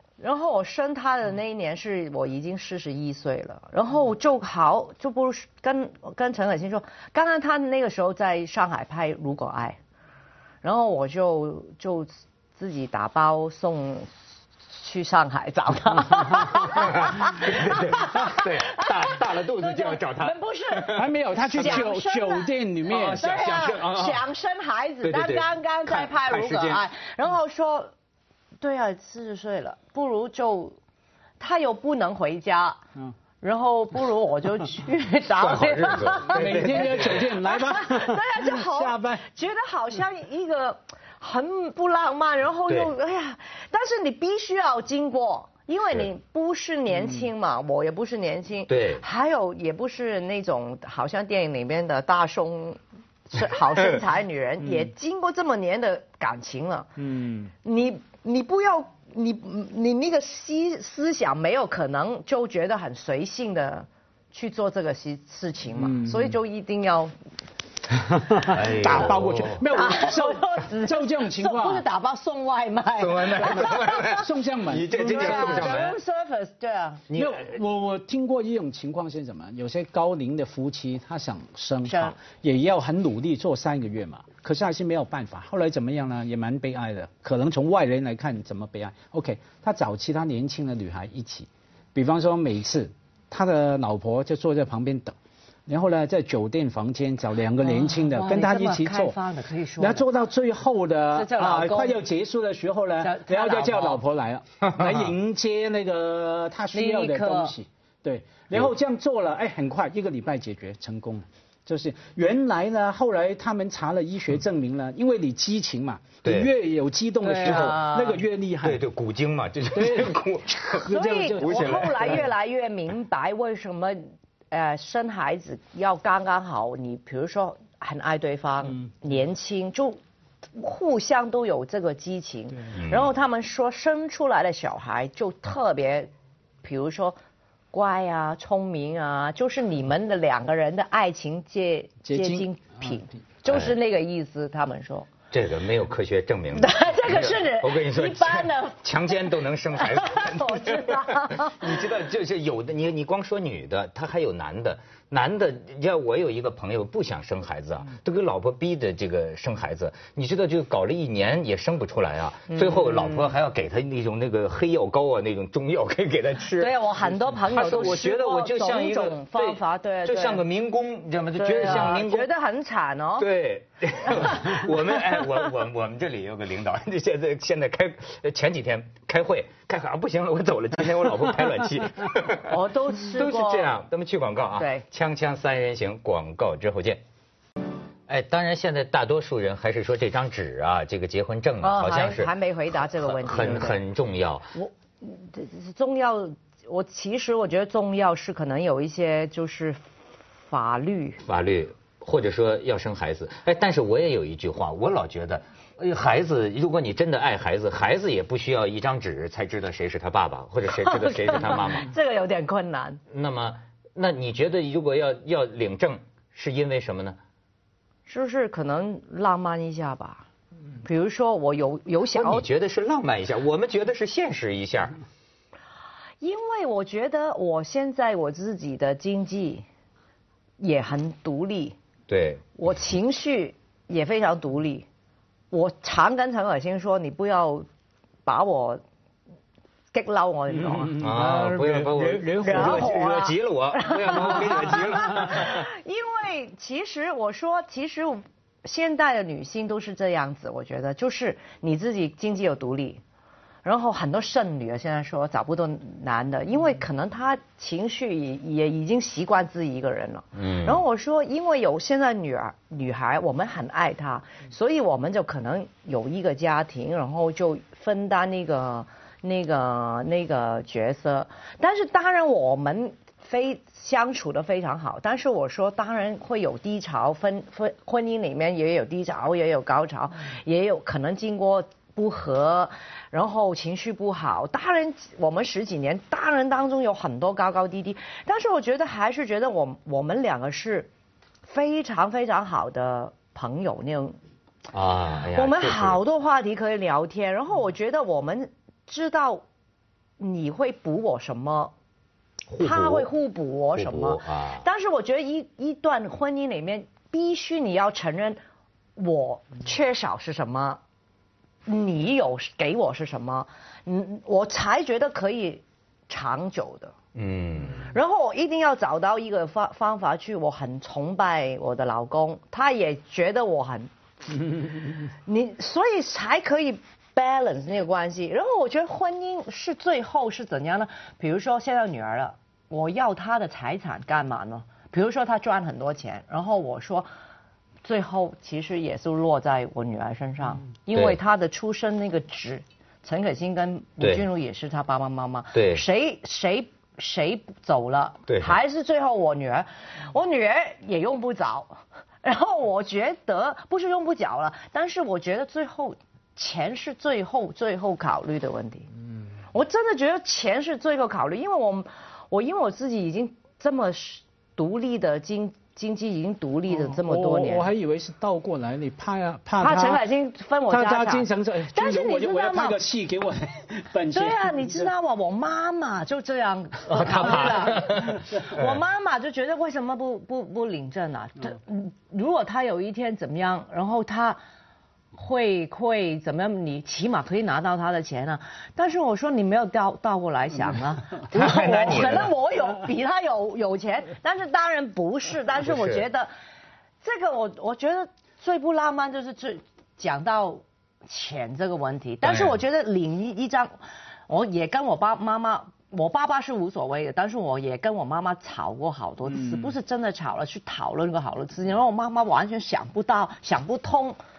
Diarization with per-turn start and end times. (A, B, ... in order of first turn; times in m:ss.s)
0:00.2-0:09.8 A
0:10.6-0:14.1 A
0:14.7-0:21.0 A
0:16.6-0:21.9 B
0:21.0-0:23.2 C
0:21.5-0:27.9 A
0:22.9-0:24.2 B
0:25.0-0:26.8 B
0:28.6-0:30.8 A
0:31.4-0:32.8 A
0:33.4-0:52.8 A
0:35.4-0:37.3 B
0:36.3-0:39.3 C
0:48.7-0:49.0 B
0:53.3-0:56.9 A
0:54.6-0:54.9 C
0:57.0-0:57.5 C
0:57.6-1:07.1 A
1:05.8-1:06.4 C
1:08.0-1:11.8 C
1:08.5-1:09.6 B
1:09.7-1:14.3 A
1:13.0-1:16.0 B
1:13.4-1:15.8 C
1:15.1-1:17.0 A
1:17.1-1:17.5 B
1:17.1-1:35.2 C
1:21.8-1:22.2 A
1:35.7-1:39.2 C
1:37.6-1:40.1 A
1:39.8-1:58.8 C
1:41.1-1:42.0 A
1:43.0-1:44.0 A
1:44.6-1:45.1 B
1:46.7-1:47.6 A
1:56.2-1:56.5 B
1:57.2-1:58.2 A
1:57.4-1:57.8 B
1:58.6-2:02.2 B
1:59.7-2:02.3 C
2:00.8-2:04.0 A
2:04.5-2:10.0 A
2:10.6-2:16.1 A
2:12.8-2:13.1 B
2:16.6-2:17.2 A
2:17.7-2:25.1 A
2:22.0-2:23.0 C
2:23.5-2:23.7 B
2:25.3-2:46.7 B
2:26.6-2:29.1 A
2:29.7-2:31.7 A
2:42.5-2:43.3 A
2:46.6-2:50.4 A
2:47.5-2:52.3 B
2:51.4-2:53.3 A
2:53.2-3:02.5 B
2:54.1-2:55.2 A
3:02.5-3:03.8 A
3:03.1-3:07.0 B
3:04.6-3:04.8 A
3:08.1-3:12.3 B
3:11.6-3:13.8 A
3:13.0-3:14.5 B
3:14.5-3:19.8 A
3:20.5-3:21.2 A
3:21.2-3:31.9 B
3:30.7-3:33.0 A
3:33.1-3:37.2 B
3:38.1-3:40.2 A
3:40.8-3:42.5 A
3:42.1-3:45.0 B
3:46.2-3:49.6 A
3:50.6-3:51.8 A
3:52.1-3:52.4 B
3:52.6-3:54.9 A
3:55.5-3:57.7 A
3:58.2-3:58.8 A
3:59.9-4:01.0 A
4:00.5-4:03.3 C
4:01.0-4:05.7 B
4:02.4-4:13.0 A
4:13.6-4:50.9 A
4:20.4-4:20.8 B
4:51.5-4:54.2 A
4:54.7-4:56.0 B
4:55.4-4:59.4 A
5:00.2-5:01.7 A
5:02.5-5:03.1 B
5:02.6-5:08.4 A
5:03.8-5:04.6 B
5:09.0-5:10.8 A
5:11.7-5:16.9 A
5:17.2-5:17.9 B
5:17.8-5:23.9 A
5:25.3-5:37.1 A
5:37.8-5:58.9 A
5:40.9-5:41.2 B
5:45.5-5:45.8 B
5:48.3-5:48.6 B
5:59.5-6:07.7 A
6:06.7-6:10.0 C
6:09.6-6:12.8 A
6:10.7-6:14.9 C
6:14.1-6:24.4 A
6:16.9-6:18.6 B
6:25.1-6:36.3 A
6:31.3-6:32.3 B
6:35.6-6:36.0 B
6:37.0-6:43.7 A
6:42.2-6:42.6 B
6:44.3-6:54.2 A
6:49.3-6:49.8 C